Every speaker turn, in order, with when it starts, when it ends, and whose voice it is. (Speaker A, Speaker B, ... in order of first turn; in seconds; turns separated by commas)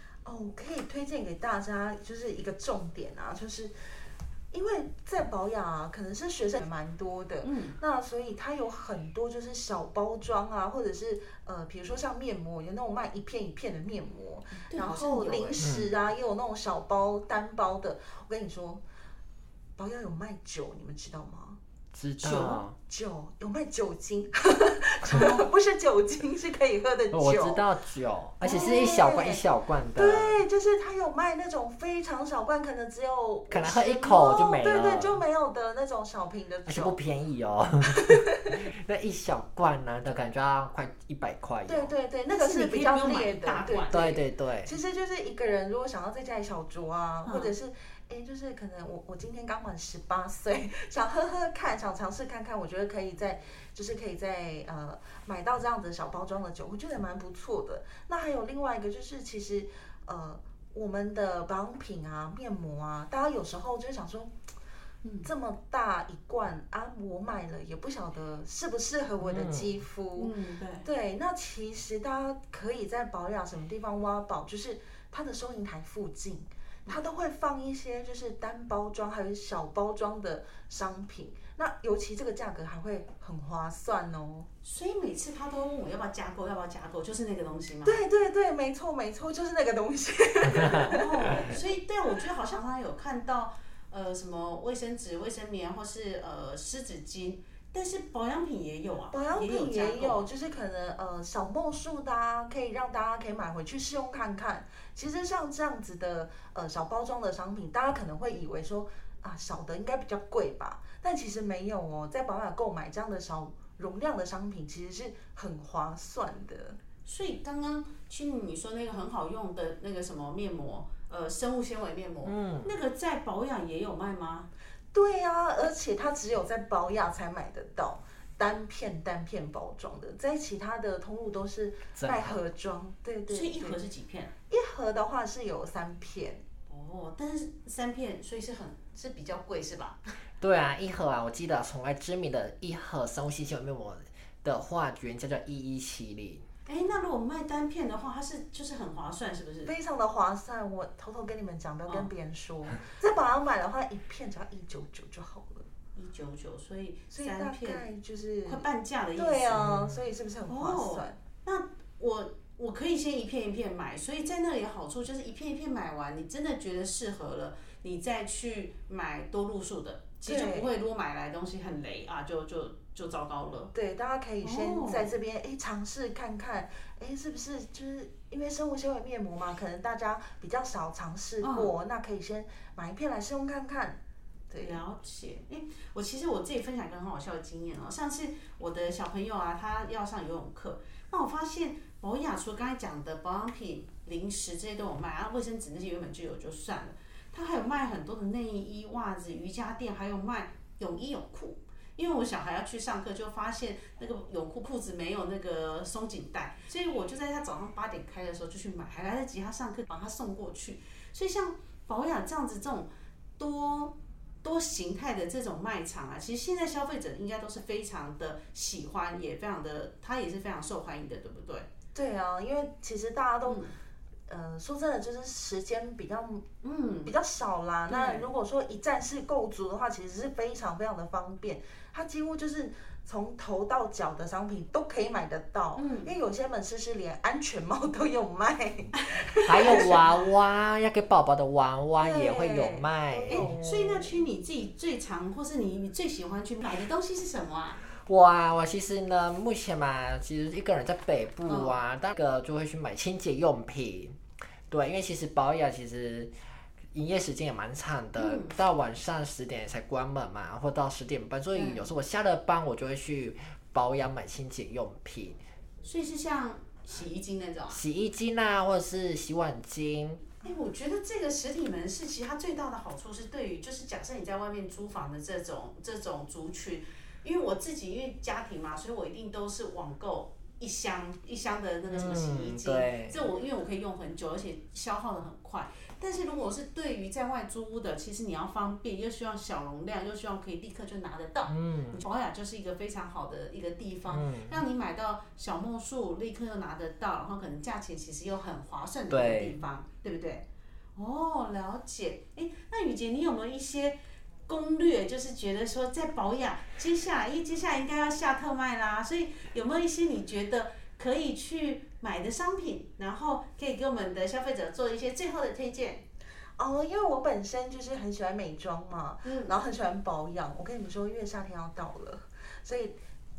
Speaker A: 0.2-18.8, Speaker B: 7.4-7.8, Speaker B: 14.7-15.7, Speaker C: 15.6-15.9, Speaker A: 19.8-21.6, Speaker C: 21.9-22.8, Speaker B: 22.2-22.6, Speaker A: 22.9-27.6, Speaker B: 25.1-25.5, Speaker C: 27.1-30.4, Speaker A: 28.4-29.4, Speaker A: 29.9-37.0, Speaker C: 33.5-35.1, Speaker C: 36.6-41.9, Speaker A: 37.9-38.6, Speaker A: 41.6-43.9, Speaker B: 42.3-44.2, Speaker C: 43.9-44.7, Speaker A: 44.6-64.3, Speaker B: 47.2-47.5, Speaker B: 65.0-65.3, Speaker A: 65.2-84.5, Speaker C: 69.2-69.7, Speaker B: 70.2-70.9, Speaker B: 84.6-88.0, Speaker A: 87.8-91.6, Speaker B: 90.8-100.3, Speaker A: 99.1-116.8, Speaker B: 117.0-124.5, Speaker C: 122.2-122.7, Speaker A: 124.9-133.8, Speaker C: 131.9-132.4, Speaker B: 133.3-134.3, Speaker A: 134.5-136.4, Speaker B: 136.7-140.0, Speaker C: 140.4-146.4, Speaker B: 146.7-149.7, Speaker A: 149.7-155.7, Speaker B: 155.9-157.8, Speaker A: 157.1-161.2, Speaker B: 158.4-159.7, Speaker C: 159.6-160.0, Speaker B: 160.5-173.7, Speaker A: 170.2-170.7, Speaker A: 173.7-184.0, Speaker B: 174.4-175.1, Speaker B: 181.4-181.7, Speaker A: 184.5-184.8, Speaker B: 184.6-221.7, Speaker A: 221.9-223.6, Speaker B: 223.4-223.7, Speaker A: 224.3-226.5, Speaker B: 226.6-227.1, Speaker A: 227.0-240.0, Speaker B: 227.9-228.3, Speaker B: 235.8-236.1, Speaker B: 239.0-240.0, Speaker C: 239.5-243.5, Speaker A: 242.0-244.2, Speaker B: 243.3-247.8, Speaker C: 247.8-256.3, Speaker B: 251.5-251.8, Speaker C: 256.9-265.4, Speaker B: 258.1-258.6, Speaker B: 261.5-261.8, Speaker B: 265.8-267.8, Speaker C: 267.7-270.2, Speaker B: 270.4-300.4, Speaker C: 281.9-283.2, Speaker C: 291.5-292.0, Speaker C: 294.1-294.6, Speaker C: 299.1-299.6, Speaker B: 300.9-304.0, Speaker B: 304.5-316.0, Speaker A: 316.6-322.9, Speaker B: 319.2-319.5